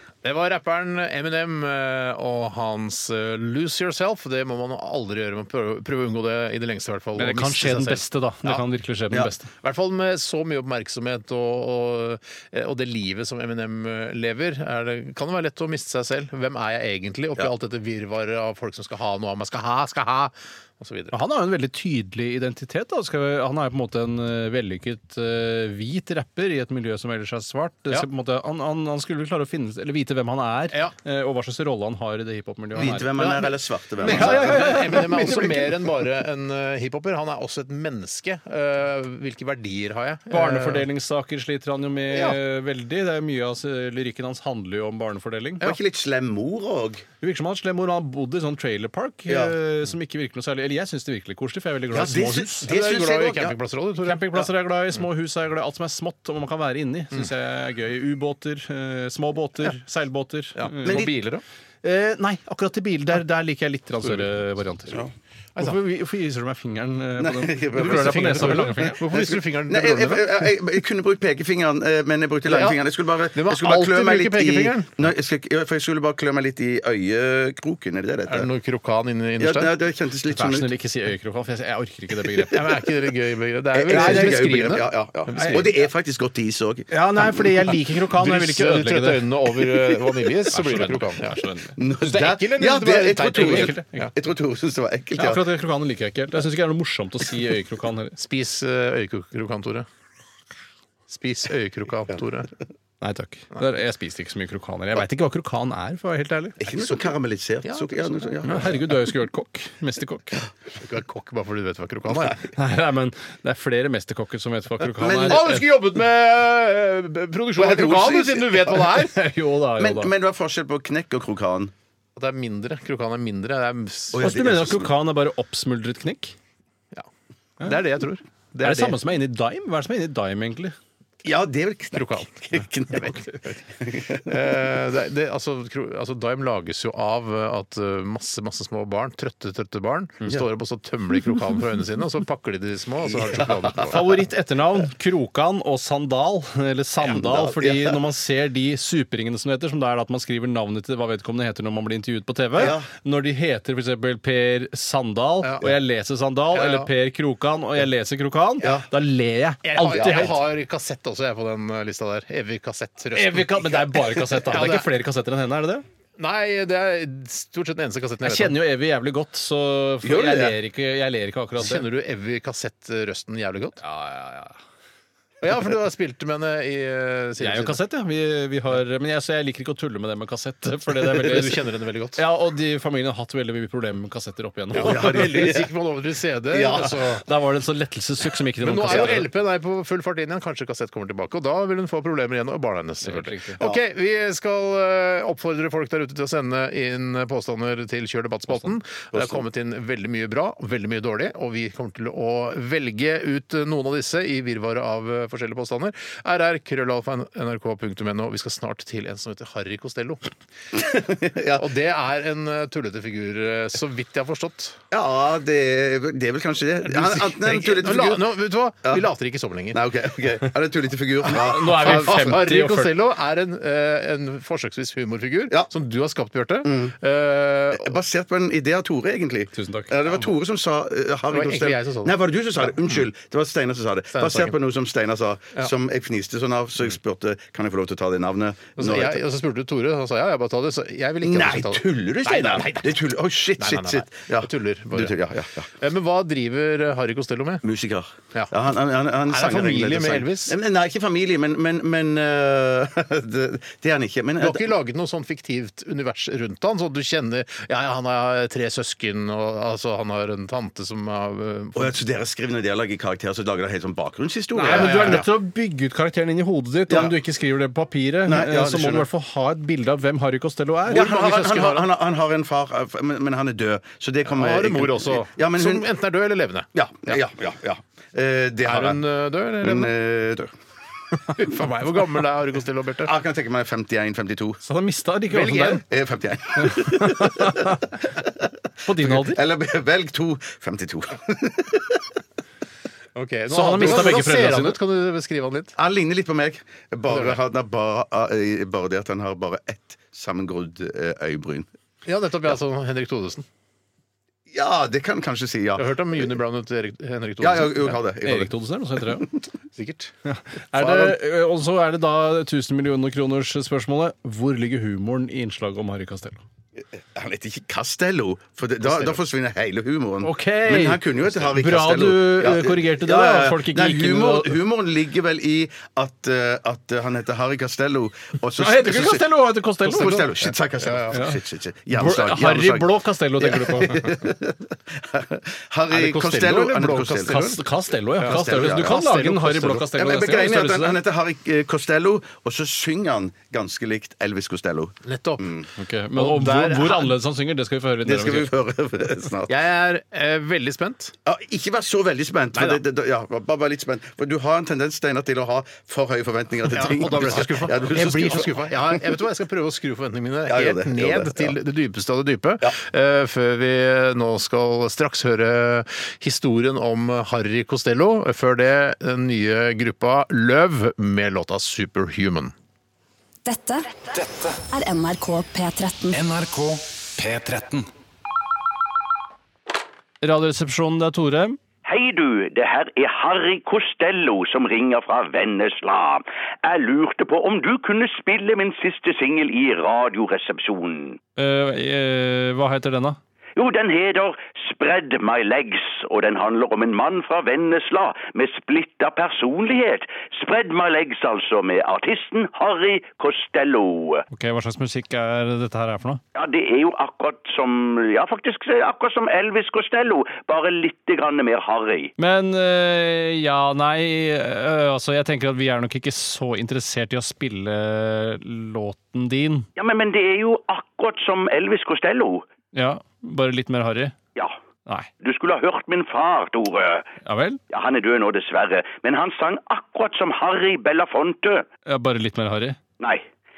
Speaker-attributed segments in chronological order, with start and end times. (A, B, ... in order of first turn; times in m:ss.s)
0:00.2-0:08.6 A
0:07.2-0:09.5 B
0:09.6-0:21.1 A
0:21.1-0:33.2 B
0:32.8-0:35.6 C
0:32.8-0:40.9 A
0:34.0-0:35.5 B
0:40.3-0:45.7 B
0:42.1-0:42.4 A
0:45.6-0:47.0 C
0:47.2-0:52.7 B
0:49.3-0:49.5 C
0:51.9-0:53.6 C
0:52.6-0:54.4 A
0:54.0-1:01.1 B
1:00.6-1:01.4 A
1:00.8-1:01.1 C
1:01.8-1:09.0 B
1:07.2-1:18.5 C
1:07.7-1:10.5 A
1:12.4-1:12.8 A
1:13.3-1:15.1 A
1:18.3-1:19.7 A
1:19.4-1:20.7 C
1:20.3-1:22.6 B
1:22.5-1:25.7 A
1:23.7-1:27.5 C
1:23.9-1:24.4 B
1:25.3-1:25.6 B
1:26.9-1:29.3 B
1:28.1-1:31.3 A
1:29.7-1:30.3 C
1:30.5-1:31.8 B
1:31.8-1:35.4 C
1:32.0-1:34.1 A
1:33.3-1:34.1 B
1:35.2-1:38.2 B
1:38.2-1:39.9 A
1:41.1-1:42.5 A
1:43.0-1:46.6 B
1:46.6-1:48.8 C
1:47.6-1:48.7 A
1:48.4-1:50.4 B
1:50.8-1:52.4 A
1:52.5-1:55.6 B
1:55.0-1:55.6 C
1:55.3-1:59.2 A
1:57.6-1:58.9 C
1:58.9-2:00.1 B
1:59.8-2:01.7 C
2:02.2-2:04.3 A
2:04.1-2:04.9 C
2:04.2-2:06.4 B
2:07.6-2:09.0 A
2:08.6-2:10.8 B
2:11.2-2:14.4 C
2:11.9-2:12.3 A
2:12.9-2:13.6 A
2:14.2-2:24.2 A
2:23.1-2:23.9 C
2:23.8-2:40.4 B
2:27.0-2:28.0 C
2:32.6-2:32.9 C
2:36.5-2:36.9 A
2:38.6-2:38.9 C
2:39.6-2:43.8 A
2:39.9-2:40.3 C
2:43.1-2:45.8 B
2:44.4-2:44.9 A
2:46.2-2:48.6 A
2:48.2-2:51.8 B
2:50.0-2:50.6 C
2:51.6-2:53.8 A
2:53.8-2:54.6 B
2:55.4-2:57.8 A
2:57.4-3:01.6 B
3:01.0-3:02.2 A
3:02.1-3:05.5 B
3:04.7-3:05.7 C
3:04.7-3:07.2 A
3:06.5-3:07.0 C
3:06.8-3:09.3 B
3:08.6-3:30.3 A
3:13.0-3:13.6 B
3:19.1-3:19.4 C
3:30.7-3:31.6 C
3:31.5-3:34.8 A
3:34.9-3:38.3 C
3:36.8-3:39.8 A
3:39.7-3:42.3 C
3:41.2-3:43.0 B
3:41.5-3:48.0 A
3:46.6-3:46.9 C
3:47.7-3:59.2 C
3:49.5-3:50.0 B
3:51.3-3:52.9 A
3:54.1-3:54.5 A
3:58.8-4:03.0 A
4:01.2-4:05.7 C
4:03.6-4:05.1 A
4:05.8-4:07.6 A
4:07.6-4:14.7 C
4:09.3-4:10.6 A
4:14.4-4:22.0 A
4:21.7-4:25.3 C
4:24.5-4:31.1 B
4:24.6-4:25.3 A
4:26.9-4:27.1 C
4:28.2-4:29.1 C
4:30.9-4:31.9 A
4:30.9-4:35.8 C
4:34.3-4:37.2 A
4:36.7-4:39.0 C
4:38.6-4:39.9 A
4:39.6-4:40.5 C
4:41.3-4:43.1 A
4:43.0-4:44.6 C
4:44.6-4:45.8 B
4:45.3-4:45.8 A
4:45.9-4:48.3 C
4:46.6-4:47.9 B
4:48.8-4:49.4 B
4:49.0-4:52.1 C
4:53.1-4:55.7 A
4:53.5-4:54.8 B
4:53.8-4:54.1 C
4:55.8-5:01.7 C
4:57.1-4:57.4 A
5:02.0-5:03.5 A
5:04.5-5:06.0 C
5:05.8-5:08.0 A
5:07.4-5:08.5 C
5:08.2-5:09.3 B
5:09.7-5:10.1 A
5:10.2-5:16.4 B
5:10.8-5:11.1 C
5:16.9-5:29.3 C
5:18.8-5:19.2 A
5:20.2-5:24.6 B
5:28.6-5:30.2 B
5:29.8-5:37.6 C
5:29.9-5:31.2 A
5:31.9-5:34.2 B
5:35.9-5:37.5 A
5:37.3-5:41.0 B
5:38.2-5:39.9 A
5:38.2-5:38.9 C
5:39.9-5:45.7 C
5:45.0-5:45.5 A
5:45.8-5:48.5 B
5:46.1-5:47.2 A
5:48.0-5:49.6 C
5:49.5-5:51.1 A
5:51.2-5:59.0 C
5:52.5-5:52.8 A
5:56.6-6:12.5 A
6:00.5-6:01.5 C
6:13.4-6:14.1 D
6:14.2-6:14.6 E
6:14.7-6:16.2 D
6:16.1-6:17.9 E
6:20.2-6:21.6 B
6:21.8-6:31.2 F
6:31.4-6:33.2 B
6:33.6-6:44.2 F
6:44.3-6:46.2 B
6:46.3-6:52.1 F
6:52.2-6:59.7 B
6:59.8-7:02.4 F
7:02.7-7:04.2 B
7:05.2-7:07.0 F
7:07.2-7:07.6 B
7:07.7-7:11.6 F
7:11.8-7:12.8 B
7:13.0-7:13.2 F